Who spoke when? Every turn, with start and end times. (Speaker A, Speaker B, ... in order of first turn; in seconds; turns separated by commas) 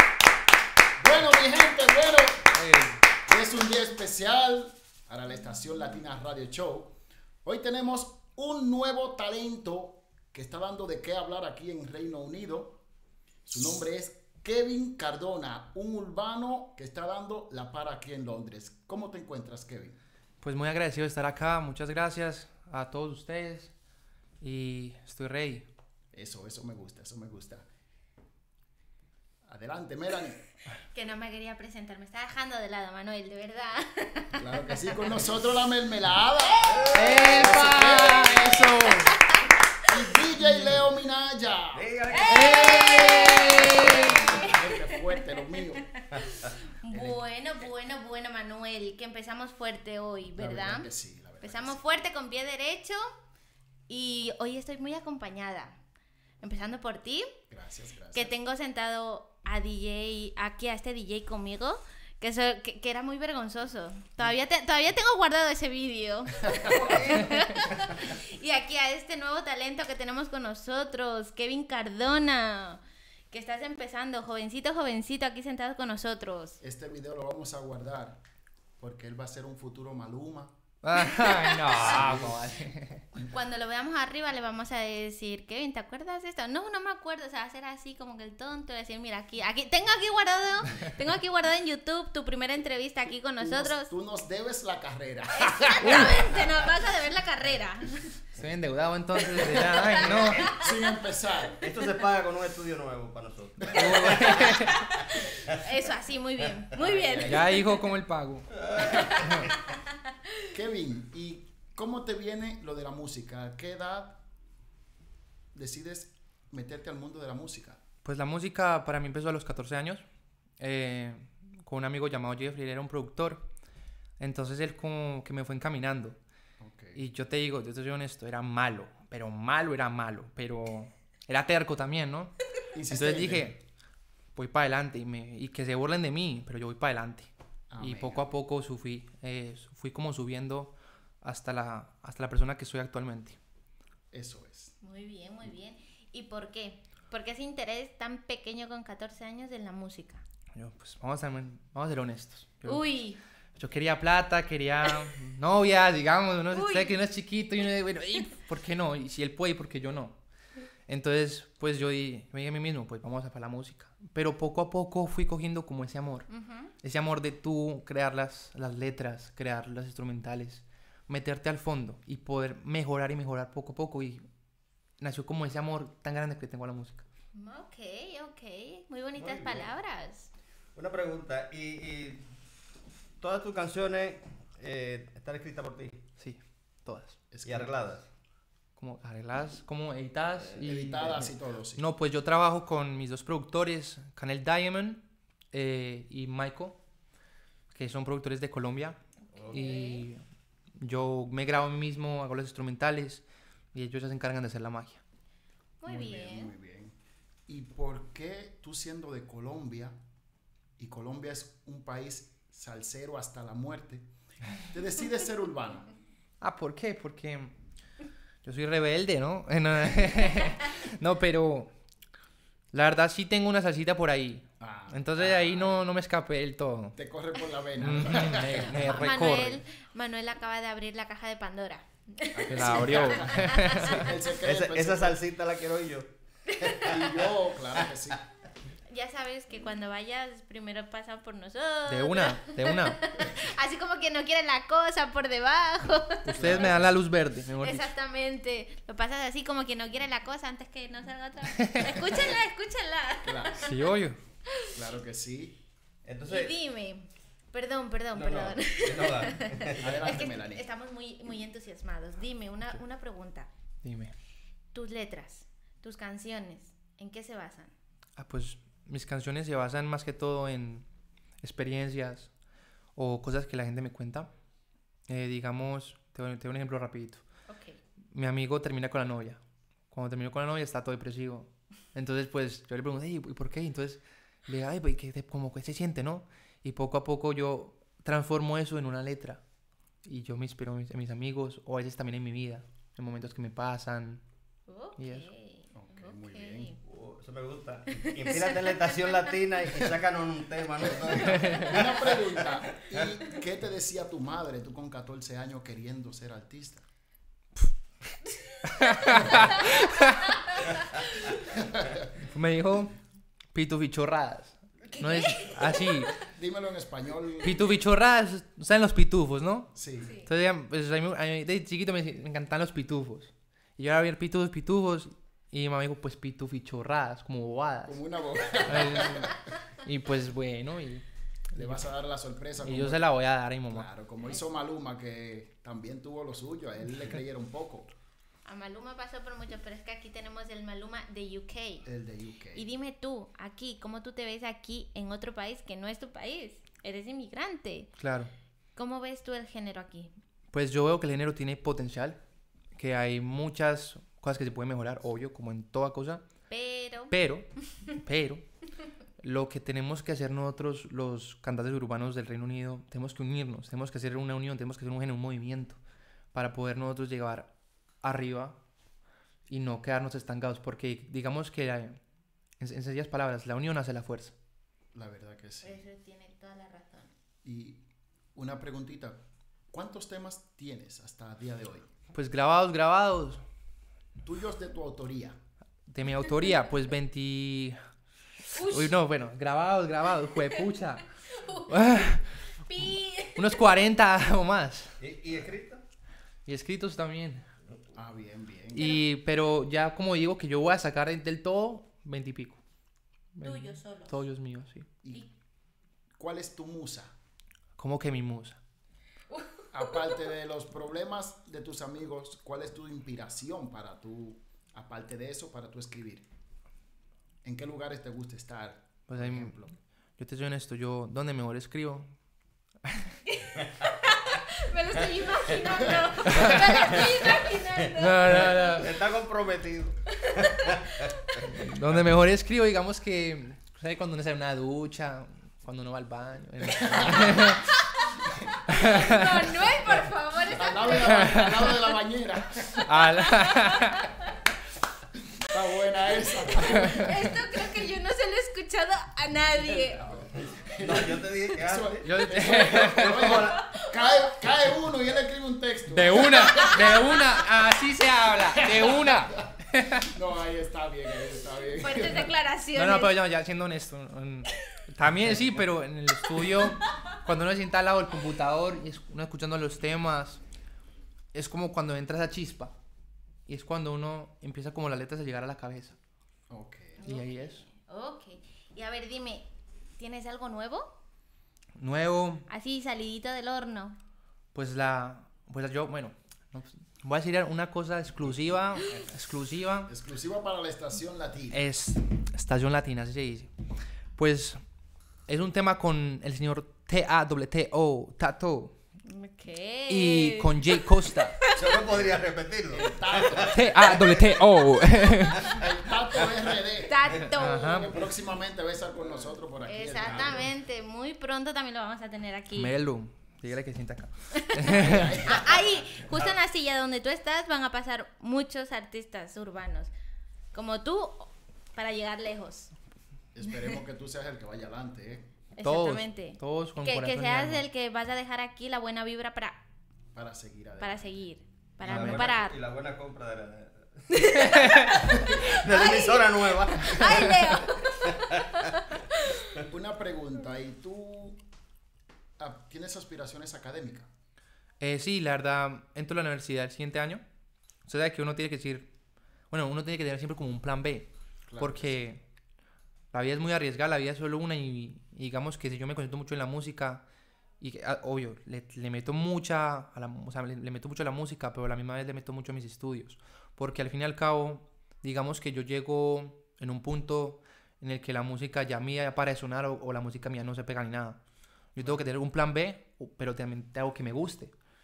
Speaker A: 1.0-2.6, Speaker B: 2.5-3.0, Speaker A: 3.3-12.8, Speaker A: 13.4-20.0, Speaker B: 20.4-23.7, Speaker B: 24.4-25.7, Speaker A: 26.1-27.7, Speaker A: 29.4-30.4, Speaker C: 30.9-34.7, Speaker A: 34.4-38.6, Speaker C: 36.4-39.5, Speaker D: 36.6-37.5, Speaker B: 36.9-39.2, Speaker A: 39.8-41.8, Speaker B: 40.4-40.8, Speaker D: 41.7-43.0, Speaker C: 42.1-45.2, Speaker B: 42.3-44.4, Speaker A: 43.7-45.9, Speaker C: 46.0-50.9, Speaker A: 46.9-47.2, Speaker A: 50.4-51.8, Speaker C: 51.4-53.0, Speaker C: 53.9-55.8, Speaker C: 56.4-57.3, Speaker A: 57.5-58.3, Speaker C: 58.1-72.8, Speaker D: 66.6-68.0, Speaker C: 73.3-76.6, Speaker A: 76.6-78.2, Speaker A: 78.8-80.5, Speaker B: 80.8-83.1, Speaker C: 81.0-82.1, Speaker A: 81.7-82.5, Speaker C: 83.3-93.9, Speaker A: 93.4-96.1, Speaker C: 95.4-97.9, Speaker B: 95.8-96.2, Speaker B: 98.4-100.5, Speaker C: 99.2-100.5, Speaker D: 100.0-100.5, Speaker A: 100.5-101.6, Speaker D: 101.6-105.2, Speaker A: 103.6-104.0, Speaker B: 103.8-104.8, Speaker C: 105.0-107.6, Speaker D: 106.4-107.7, Speaker B: 107.2-109.4, Speaker D: 108.6-109.5, Speaker C: 108.8-109.7, Speaker A: 110.5-114.2, Speaker A: 115.5-117.8, Speaker B: 118.0-120.0, Speaker B: 120.6-123.5, Speaker B: 124.2-126.2, Speaker A: 126.6-127.0, Speaker B: 126.9-132.3, Speaker A: 132.7-133.5, Speaker B: 132.9-133.6, Speaker B: 134.3-143.4, Speaker A: 137.7-138.3, Speaker A: 144.1-144.8, Speaker C: 144.8-150.2, Speaker B: 150.6-152.8, Speaker C: 152.7-153.2, Speaker B: 153.6-160.2, Speaker C: 156.5-157.0, Speaker B: 160.9-166.3, Speaker C: 166.3-166.7, Speaker B: 166.8-174.2, Speaker B: 175.0-177.1, Speaker C: 177.3-180.3, Speaker D: 179.2-179.7, Speaker D: 180.8-182.2, Speaker D: 183.2-186.1, Speaker B: 186.2-187.2, Speaker A: 187.3-187.8, Speaker D: 187.4-188.1, Speaker B: 188.8-196.8, Speaker A: 190.6-191.8, Speaker B: 197.7-199.0, Speaker D: 199.3-199.7, Speaker C: 199.4-200.1, Speaker B: 199.5-200.2, Speaker B: 200.8-205.0, Speaker C: 205.8-206.5, Speaker A: 205.8-207.0, Speaker A: 207.5-210.0, Speaker A: 210.8-215.9, Speaker B: 216.4-217.5, Speaker B: 218.4-221.7, Speaker B: 222.7-227.0, Speaker A: 224.6-225.7, Speaker A: 227.0-228.9, Speaker B: 227.8-229.6, Speaker C: 228.7-234.1, Speaker A: 232.3-235.2, Speaker B: 232.5-234.1, Speaker D: 234.4-237.3, Speaker A: 236.8-238.2, Speaker C: 238.9-246.8, Speaker B: 241.9-243.0, Speaker B: 246.2-247.9, Speaker A: 246.3-247.0, Speaker C: 247.6-253.8, Speaker B: 251.6-252.0, Speaker A: 253.2-253.6, Speaker B: 253.6-254.2, Speaker A: 254.7-255.6, Speaker D: 256.1-256.5, Speaker C: 256.3-263.5, Speaker D: 258.1-260.1, Speaker A: 259.8-260.6, Speaker B: 263.8-264.1, Speaker C: 264.7-267.7, Speaker B: 268.2-270.9, Speaker B: 271.4-272.3, Speaker B: 272.9-274.3, Speaker B: 275.1-277.2, Speaker C: 277.5-277.8, Speaker B: 278.1-279.4, Speaker B: 279.9-289.4, Speaker B: 290.1-294.2, Speaker C: 294.7-296.8, Speaker B: 295.0-295.3, Speaker A: 295.7-296.7, Speaker D: 296.8-303.1, Speaker C: 298.2-298.9, Speaker A: 301.4-306.9, Speaker B: 308.6-310.3, Speaker C: 310.3-310.8, Speaker A: 311.4-312.0, Speaker B: 312.2-312.9, Speaker B: 313.5-316.1, Speaker C: 314.9-316.2, Speaker A: 316.3-317.7, Speaker B: 317.4-319.7, Speaker A: 319.8-320.1, Speaker C: 320.0-320.3, Speaker B: 320.2-328.0, Speaker A: 327.9-329.3, Speaker B: 328.6-331.9, Speaker A: 331.6-333.1, Speaker B: 332.6-333.9, Speaker A: 333.7-337.9, Speaker C: 338.4-341.9, Speaker A: 341.9-342.7, Speaker C: 342.6-347.9, Speaker B: 348.0-348.3, Speaker C: 348.8-350.1, Speaker B: 350.5-352.2, Speaker B: 352.8-356.2, Speaker C: 356.5-357.1, Speaker B: 357.1-358.4, Speaker B: 359.2-365.8, Speaker B: 366.3-367.5, Speaker B: 368.0-368.6, Speaker B: 369.5-372.0, Speaker B: 372.6-374.4, Speaker A: 374.9-375.8, Speaker C: 375.6-377.1, Speaker A: 377.4-377.8, Speaker A: 378.4-379.2, Speaker A: 379.7-381.9, Speaker B: 382.1-383.4, Speaker A: 384.2-385.4, Speaker B: 385.9-387.8, Speaker B: 388.5-391.0, Speaker C: 388.6-388.9, Speaker C: 390.4-393.6, Speaker B: 391.7-392.2, Speaker B: 393.3-395.0, Speaker D: 395.0-395.8, Speaker B: 396.4-397.4, Speaker A: 397.9-398.9, Speaker B: 398.7-402.6, Speaker C: 398.8-399.0, Speaker B: 403.4-404.9, Speaker C: 403.4-404.1, Speaker A: 406.2-407.1, Speaker B: 407.8-408.6, Speaker C: 409.3-410.1, Speaker A: 409.7-416.2, Speaker A: 417.4-419.8, Speaker B: 419.1-419.6, Speaker B: 420.2-422.1, Speaker B: 422.9-423.1, Speaker C: 423.2-428.8, Speaker D: 426.2-431.0, Speaker B: 426.2-426.8, Speaker B: 427.9-428.9, Speaker C: 430.2-431.4, Speaker B: 431.4-437.6, Speaker C: 436.7-441.9, Speaker A: 436.8-437.5, Speaker B: 438.7-439.5, Speaker A: 440.5-442.7, Speaker B: 441.0-441.7, Speaker B: 442.7-444.1, Speaker C: 443.0-444.2, Speaker A: 445.4-447.1, Speaker C: 446.5-450.1, Speaker B: 446.7-447.2, Speaker A: 449.6-457.0, Speaker C: 450.7-450.9, Speaker D: 450.8-453.6, Speaker B: 452.0-453.5, Speaker C: 453.4-454.3, Speaker B: 455.9-460.1, Speaker C: 456.4-457.3, Speaker A: 458.6-459.2, Speaker A: 460.1-462.3, Speaker C: 461.7-463.2, Speaker B: 462.8-470.4, Speaker B: 471.3-472.8, Speaker B: 473.5-475.9, Speaker A: 476.5-477.0, Speaker C: 477.0-480.9, Speaker B: 477.1-477.6, Speaker B: 481.8-482.5, Speaker C: 482.5-484.0, Speaker B: 484.5-489.9, Speaker A: 489.9-491.6, Speaker B: 491.5-493.5, Speaker B: 494.2-494.6, Speaker B: 495.3-498.7, Speaker C: 499.1-501.8, Speaker B: 499.9-501.4, Speaker D: 501.6-504.6, Speaker A: 502.7-503.7, Speaker B: 503.5-505.5, Speaker D: 505.4-506.5, Speaker A: 505.5-510.5, Speaker C: 506.9-507.9, Speaker B: 507.4-507.9, Speaker C: 509.6-512.7, Speaker D: 510.0-510.5, Speaker B: 512.5-515.2, Speaker C: 514.4-519.9, Speaker A: 514.7-515.6, Speaker D: 515.0-516.4, Speaker C: 520.5-522.7, Speaker A: 523.3-525.3, Speaker C: 525.5-529.6, Speaker B: 525.6-527.6, Speaker A: 530.1-531.1, Speaker C: 530.8-532.6, Speaker D: 531.8-534.6, Speaker C: 534.1-539.2, Speaker D: 535.1-538.7, Speaker A: 539.6-541.4, Speaker A: 542.4-544.1, Speaker B: 544.8-547.2, Speaker B: 547.9-548.9, Speaker B: 549.5-552.2, Speaker A: 551.5-552.0, Speaker B: 553.1-557.0, Speaker B: 557.6-571.2, Speaker B: 571.7-574.5